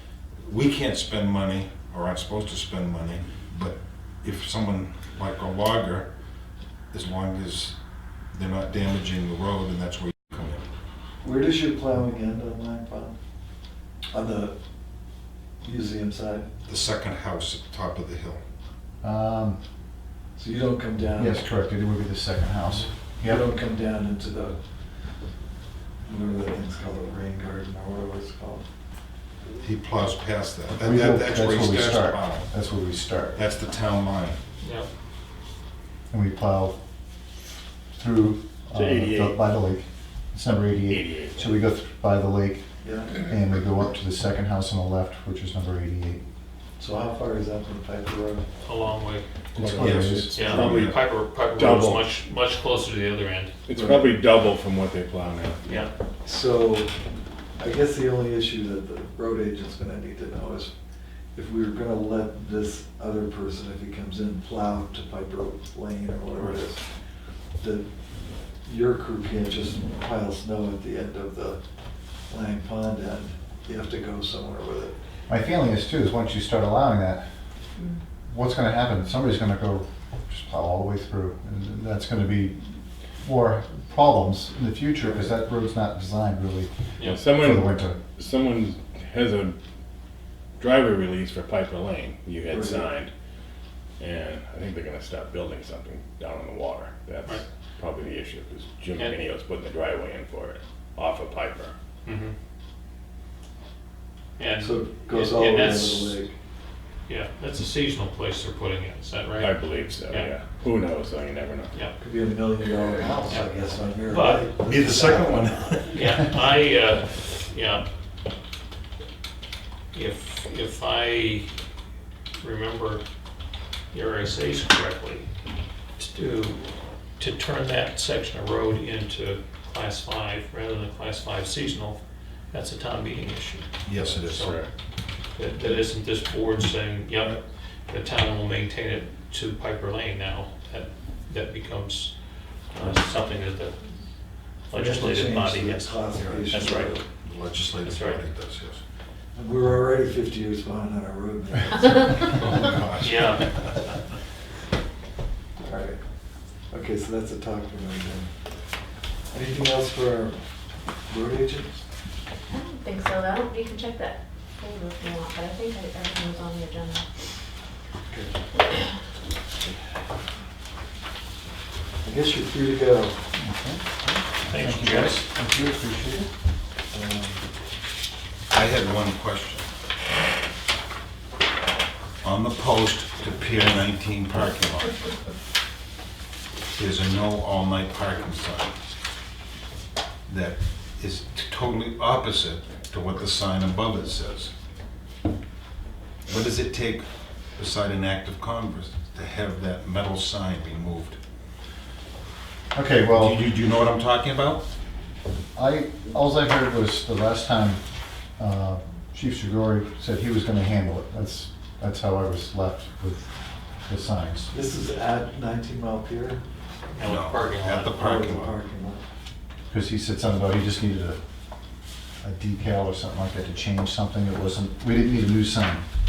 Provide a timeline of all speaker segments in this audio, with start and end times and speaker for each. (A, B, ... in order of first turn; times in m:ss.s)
0:00.4-0:06.1 A
0:06.9-0:07.8 A
0:08.3-0:10.7 A
0:11.2-0:13.2 B
0:14.1-0:14.6 B
0:15.6-0:16.5 B
0:16.7-0:18.4 A
0:19.0-0:19.6 C
0:20.4-0:21.4 B
0:21.2-0:23.5 C
0:23.2-0:24.6 B
0:26.0-0:28.6 B
0:29.6-0:32.5 A
0:30.8-0:33.4 C
0:33.4-0:34.4 A
0:34.6-0:34.9 D
0:36.1-0:36.8 C
0:37.9-0:42.6 C
0:38.7-0:39.4 E
0:40.9-0:41.6 E
0:42.8-0:43.2 B
0:43.2-0:46.2 C
0:46.8-0:48.4 B
0:48.6-0:49.3 D
0:49.6-0:50.6 C
0:49.6-0:50.9 E
0:49.8-0:51.0 A
0:50.4-0:53.5 D
0:51.5-0:52.1 E
0:53.7-0:55.9 E
0:53.7-0:54.2 B
0:55.7-0:55.9 D
0:56.2-0:56.9 B
0:57.6-1:00.7 B
1:01.4-1:06.8 B
1:07.6-1:07.9 B
1:08.7-1:11.6 B
1:12.3-1:15.0 B
1:15.3-1:17.3 C
1:18.3-1:26.7 C
1:25.0-1:25.3 B
1:27.0-1:29.6 E
1:27.3-1:28.0 C
1:30.6-1:33.1 E
1:32.5-1:32.9 B
1:34.0-1:41.7 E
1:42.0-1:42.3 D
1:44.4-1:46.2 D
1:44.6-1:46.4 B
1:47.1-1:49.6 D
1:49.4-1:51.8 E
1:51.7-1:52.0 D
1:52.0-1:55.8 B
1:53.3-1:54.5 D
1:54.6-1:56.1 A
1:55.9-1:57.9 D
1:59.9-2:01.5 D
2:02.4-2:03.0 D
2:03.9-2:05.3 D
2:06.0-2:12.0 D
2:12.5-2:14.6 D
2:13.8-2:14.5 A
2:14.4-2:14.7 E
2:15.4-2:22.1 D
2:22.7-2:23.8 D
2:24.7-2:27.0 D
2:24.7-2:27.0 B
2:26.2-2:26.5 A
2:26.5-2:26.9 E
2:27.2-2:28.8 A
2:27.8-2:28.2 D
2:29.4-2:32.2 B
2:32.2-2:33.8 A
2:33.0-2:34.0 D
2:35.6-2:36.0 B
2:36.7-2:38.3 B
2:39.3-2:40.4 B
2:41.1-2:41.8 B
2:42.5-2:47.0 F
2:48.1-2:48.3 B
2:52.0-2:53.2 B
2:53.4-2:56.3 C
2:54.5-2:55.3 D
2:56.9-2:57.4 B
2:58.5-2:59.7 A
3:02.2-3:05.1 A
3:06.8-3:08.7 A
3:10.3-3:14.5 A
3:16.3-3:21.2 A
3:22.8-3:23.4 C
3:23.1-3:24.6 A
3:25.6-3:27.8 C
3:28.4-3:33.3 C
3:33.9-3:34.5 C
3:34.5-3:36.4 B
3:36.9-3:38.0 D
3:37.0-3:38.6 A
3:38.0-3:39.0 B
3:39.7-3:41.2 C
3:42.2-3:45.8 C